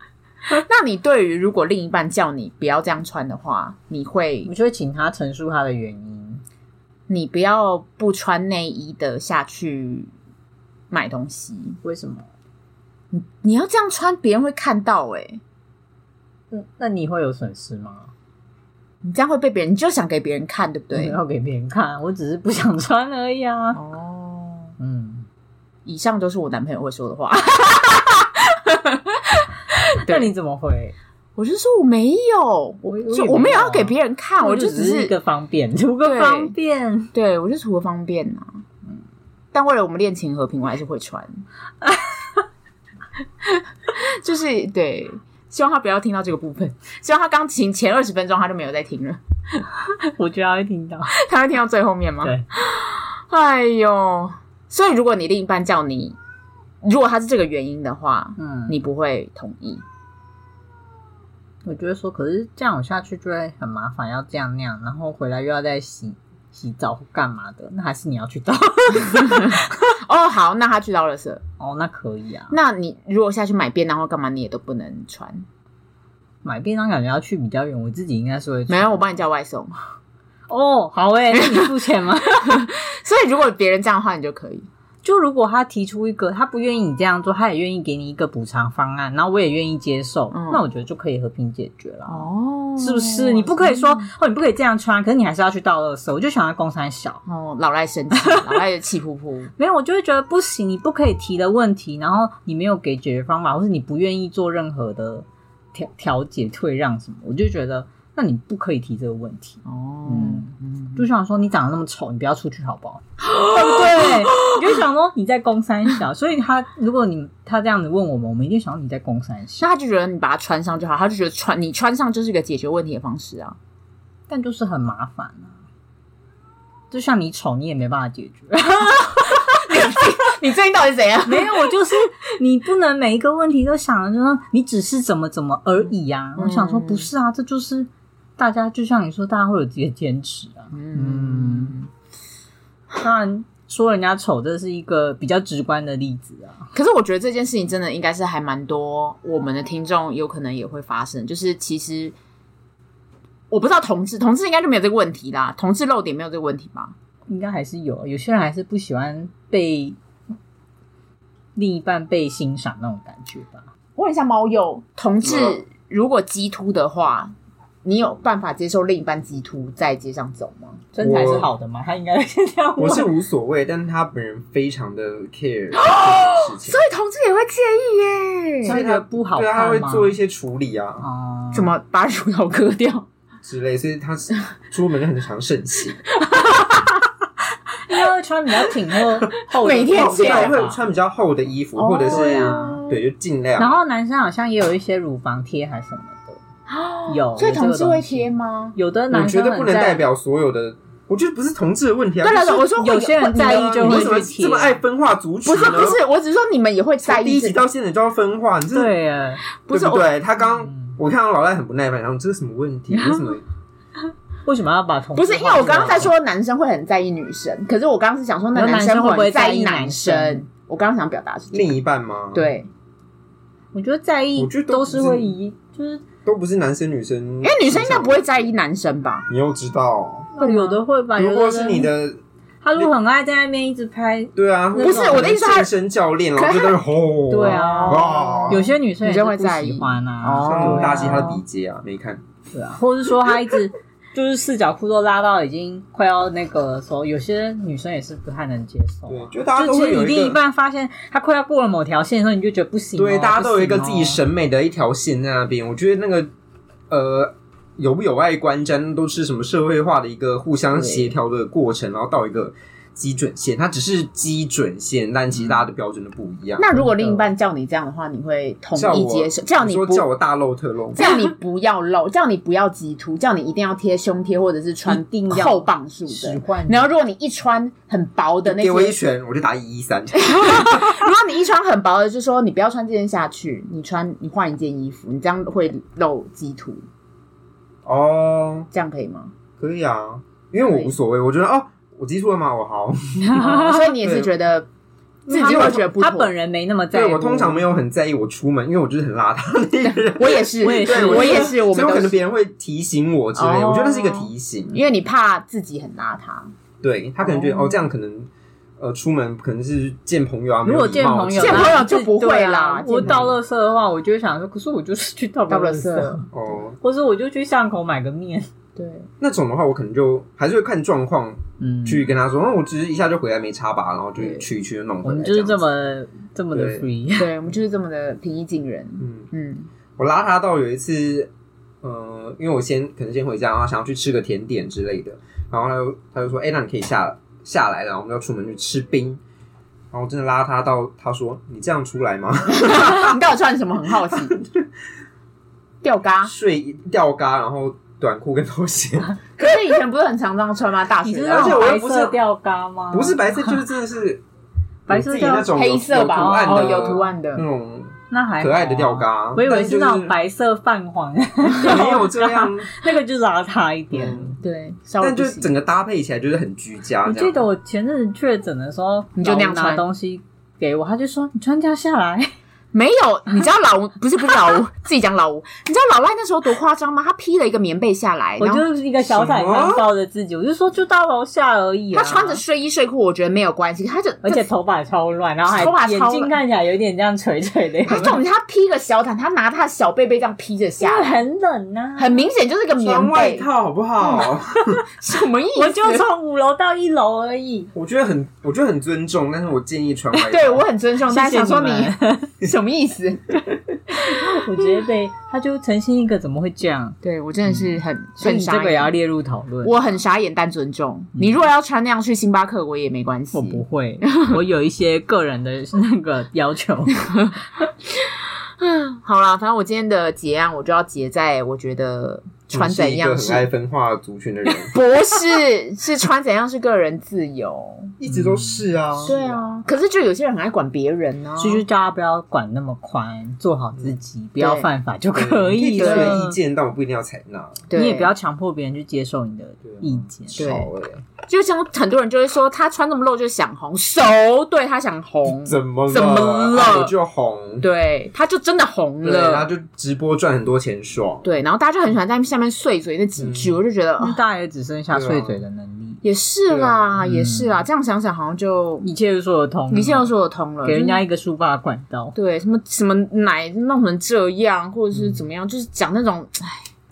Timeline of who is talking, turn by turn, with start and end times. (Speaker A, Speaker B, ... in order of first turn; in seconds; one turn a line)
Speaker A: 0.5-4.5
Speaker B: 4.4-6.4
Speaker A: 7.1-10.1
Speaker A: 10.9-11.8
Speaker B: 11.8-12.2
Speaker A: 13.1-15.4
Speaker B: 16.5-18.1
Speaker A: 19.0-21.2
Speaker B: 20.9-23.8
Speaker A: 23.7-24.7
Speaker B: 24.8-25.3
Speaker A: 25.9-30.3
Speaker B: 30.0-30.9
Speaker A: 31.4-35.1
Speaker B: 32.8-37.1
Speaker A: 36.0-36.5
Speaker A: 37.1-38.6
Speaker A: 39.5-41.4
Speaker B: 41.8-42.4
Speaker A: 43.4-49.2
Speaker B: 50.0-51.2
Speaker A: 51.1-56.2
Speaker A: 56.8-59.8
Speaker B: 58.4-58.8
Speaker B: 61.6-69.9
Speaker A: 69.0-71.4
Speaker B: 71.6-72.6
Speaker A: 72.5-75.5
Speaker B: 76.4-79.2
Speaker A: 78.7-79.7
Speaker B: 80.5-82.6
Speaker A: 81.3-81.7
Speaker A: 82.4-84.7
Speaker B: 85.0-97.2
Speaker A: 90.3-90.6
Speaker A: 92.1-94.1
Speaker A: 97.2-99.5
Speaker B: 98.1-98.6
Speaker B: 99.6-119.6
Speaker A: 109.6-111.0
Speaker A: 113.3-114.8
Speaker A: 119.6-123.6
Speaker B: 124.3-125.6
Speaker B: 126.9-129.9
Speaker A: 129.3-131.7
Speaker B: 131.2-141.8
Speaker A: 136.4-137.1
Speaker A: 140.7-141.9
Speaker B: 142.9-146.7
Speaker A: 146.7-152.1
Speaker A: 153.5-156.9
Speaker B: 157.3-160.0
Speaker B: 161.6-163.7
Speaker A: 163.9-171.5
Speaker C: 165.3-165.6
Speaker B: 170.9-173.1
Speaker C: 171.0-171.5
Speaker C: 172.8-176.8
Speaker A: 175.7-178.8
Speaker B: 178.6-180.1
Speaker C: 178.7-181.0
Speaker B: 181.0-181.7
Speaker A: 181.5-183.1
Speaker C: 183.4-186.0
Speaker A: 186.2-187.0
Speaker B: 187.9-190.8
Speaker A: 189.6-190.6
Speaker C: 189.9-193.7
Speaker A: 191.8-193.0
Speaker B: 192.1-192.8
Speaker B: 193.6-196.4
Speaker A: 196.7-198.8
Speaker B: 197.1-200.1
Speaker C: 199.1-202.7
Speaker A: 202.2-204.3
Speaker B: 202.7-204.8
Speaker C: 203.3-206.0
Speaker A: 205.4-207.6
Speaker C: 207.0-208.9
Speaker B: 208.7-209.4
Speaker A: 209.7-210.1
Speaker C: 209.7-213.4
Speaker B: 210.6-210.9
Speaker B: 214.4-216.1
Speaker A: 215.1-221.8
Speaker B: 218.5-220.4
Speaker C: 221.5-222.5
Speaker A: 222.3-222.7
Speaker B: 223.7-226.0
Speaker C: 224.3-225.3
Speaker C: 226.2-228.4
Speaker A: 227.4-229.3
Speaker C: 229.3-230.3
Speaker B: 230.3-231.9
Speaker A: 230.4-230.8
Speaker C: 231.2-232.2
Speaker B: 232.6-235.3
Speaker C: 234.3-238.7
Speaker A: 234.8-235.7
Speaker A: 236.3-236.8
Speaker B: 237.3-241.4
Speaker A: 237.4-241.3
Speaker C: 240.4-242.2
Speaker B: 242.5-254.2
Speaker C: 249.1-250.4
Speaker C: 253.0-256.3
Speaker C: 256.9-266.8
Speaker A: 260.7-261.1
Speaker A: 266.6-270.1
Speaker C: 268.7-271.1
Speaker A: 270.9-278.9
Speaker B: 274.9-276.9
Speaker C: 278.4-280.9
Speaker A: 280.2-286.8
Speaker C: 287.9-288.7
Speaker A: 288.7-289.3
Speaker C: 289.6-294.3
Speaker A: 290.6-290.9
Speaker B: 293.2-293.9
Speaker A: 293.4-294.7
Speaker B: 295.3-297.6
Speaker A: 295.3-296.3
Speaker C: 295.4-295.8
Speaker C: 296.9-304.8
Speaker A: 299.8-302.2
Speaker B: 300.6-301.5
Speaker A: 303.3-306.5
Speaker C: 306.8-311.8
Speaker A: 307.2-307.8
Speaker B: 310.6-316.3
Speaker A: 311.3-313.3
Speaker C: 313.0-313.3
Speaker A: 315.5-316.2
Speaker C: 316.3-316.8
Speaker B: 316.8-318.5
Speaker A: 318.8-319.1
Speaker C: 319.2-325.6
Speaker B: 321.6-322.1
Speaker B: 325.0-327.3
Speaker C: 326.5-326.8
Speaker A: 327.2-329.7
Speaker C: 329.0-329.3
Speaker C: 330.0-331.3
Speaker C: 331.8-339.2
Speaker C: 339.9-343.1
Speaker A: 342.5-344.3
Speaker C: 344.0-344.6
Speaker A: 345.8-346.3
Speaker C: 346.2-349.2
Speaker A: 349.4-351.8
Speaker B: 351.0-353.6
Speaker C: 351.3-352.2
Speaker C: 352.9-354.2
Speaker B: 354.9-356.9
Speaker C: 354.9-360.1
Speaker A: 355.4-357.4
Speaker B: 358.1-364.4
Speaker C: 361.5-362.8
Speaker C: 363.9-364.3
Speaker A: 364.4-365.5
Speaker C: 365.0-367.4
Speaker B: 367.0-372.3
Speaker A: 369.1-369.8
Speaker A: 372.7-378.6
Speaker B: 378.4-382.4
Speaker C: 379.0-379.9
Speaker A: 381.9-384.5
Speaker B: 384.2-388.2
Speaker A: 385.5-386.4
Speaker A: 387.9-391.2
Speaker B: 390.8-392.2
Speaker A: 391.9-393.5
Speaker C: 392.8-394.9
Speaker A: 394.0-394.3
Speaker A: 394.9-396.0
Speaker B: 395.5-397.7
Speaker C: 397.7-400.6
Speaker A: 400.1-403.4
Speaker B: 401.1-402.3
Speaker B: 403.9-407.0
Speaker A: 407.0-408.9
Speaker B: 408.2-409.8
Speaker A: 409.6-414.4
Speaker B: 413.3-417.1
Speaker A: 417.9-423.5
Speaker C: 422.5-424.8
Speaker A: 424.7-427.9
Speaker C: 428.0-429.5
Speaker B: 428.1-429.1
Speaker A: 429.1-431.6
Speaker B: 431.4-436.4
Speaker A: 434.4-434.7
Speaker C: 435.1-437.6
Speaker A: 435.8-436.2
Speaker A: 437.7-438.1
Speaker B: 437.7-440.7
Speaker C: 439.6-441.0
Speaker A: 440.3-440.7
Speaker A: 441.3-446.9
Speaker C: 445.3-447.6
Speaker A: 447.6-449.5
Speaker C: 449.0-451.3
Speaker A: 451.2-454.2
Speaker C: 453.2-453.6
Speaker B: 454.0-456.0
Speaker C: 454.9-455.4
Speaker A: 456.0-458.9
Speaker C: 456.5-456.8
Speaker B: 457.0-457.5
Speaker B: 458.8-460.1
Speaker A: 459.7-461.0
Speaker B: 460.6-462.1
Speaker A: 462.1-466.7